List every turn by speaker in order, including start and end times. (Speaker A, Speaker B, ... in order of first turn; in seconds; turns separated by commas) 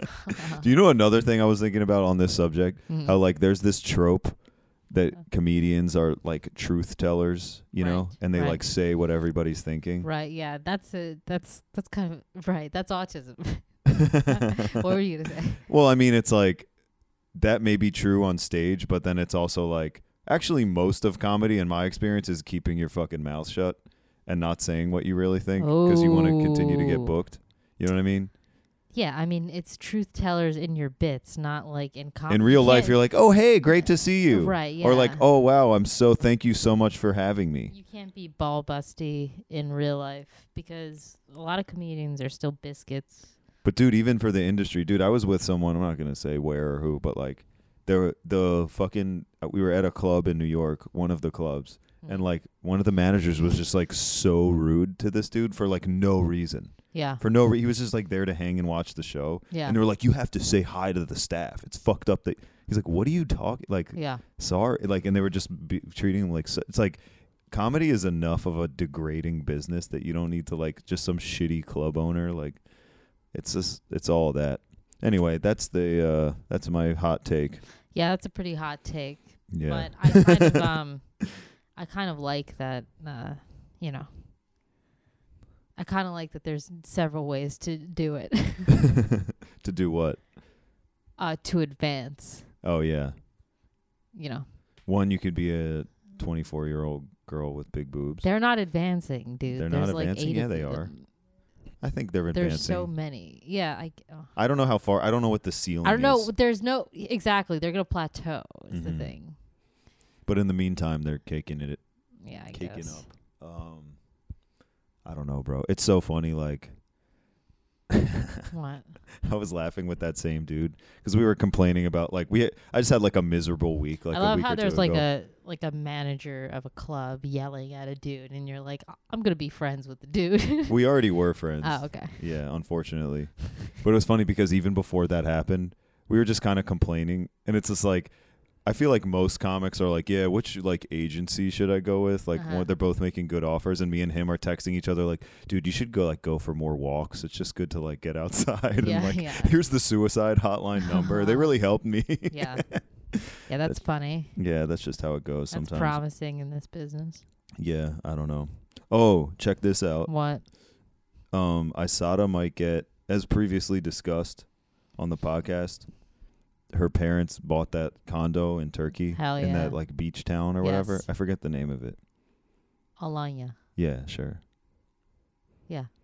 Speaker A: 0.3-0.6, Speaker B: 0.4-10.1, Speaker A: 2.9-3.2, Speaker A: 7.8-8.6, Speaker A: 10.0-15.6, Speaker B: 14.1-14.4, Speaker B: 15.6-16.7, Speaker B: 17.3-28.3, Speaker A: 25.6-27.1, Speaker A: 28.9-33.0, Speaker B: 32.3-37.7, Speaker A: 33.7-35.2, Speaker A: 37.7-43.3, Speaker B: 43.6-72.6, Speaker A: 56.9-57.2, Speaker A: 59.5-59.8, Speaker A: 63.9-64.2, Speaker B: 73.2-77.6, Speaker A: 77.9-84.2, Speaker B: 79.5-80.4, Speaker A: 85.8-88.9, Speaker B: 89.6-90.3, Speaker A: 91.2-92.5, Speaker B: 92.6-93.2, Speaker A: 94.1-94.5, Speaker B: 94.8-98.3, Speaker A: 98.2-101.0, Speaker B: 99.5-101.2, Speaker B: 101.8-102.9, Speaker A: 102.3-104.3, Speaker B: 104.3-106.3, Speaker A: 105.8-109.3, Speaker B: 108.7-109.1, Speaker B: 110.2-111.8, Speaker A: 112.2-113.0, Speaker B: 112.4-114.0, Speaker B: 115.0-116.8, Speaker B: 117.9-118.5, Speaker A: 118.5-118.9, Speaker B: 119.2-125.0, Speaker A: 124.1-131.0, Speaker B: 130.7-153.8, Speaker A: 131.6-132.2, Speaker A: 142.3-142.7, Speaker A: 148.8-149.5, Speaker A: 150.9-151.5, Speaker A: 152.3-154.3, Speaker B: 154.3-156.0, Speaker A: 155.5-157.2, Speaker B: 157.6-160.1, Speaker A: 160.1-160.4, Speaker B: 161.3-166.1, Speaker B: 166.7-172.0, Speaker A: 169.1-171.1, Speaker A: 173.0-173.6, Speaker B: 173.8-174.4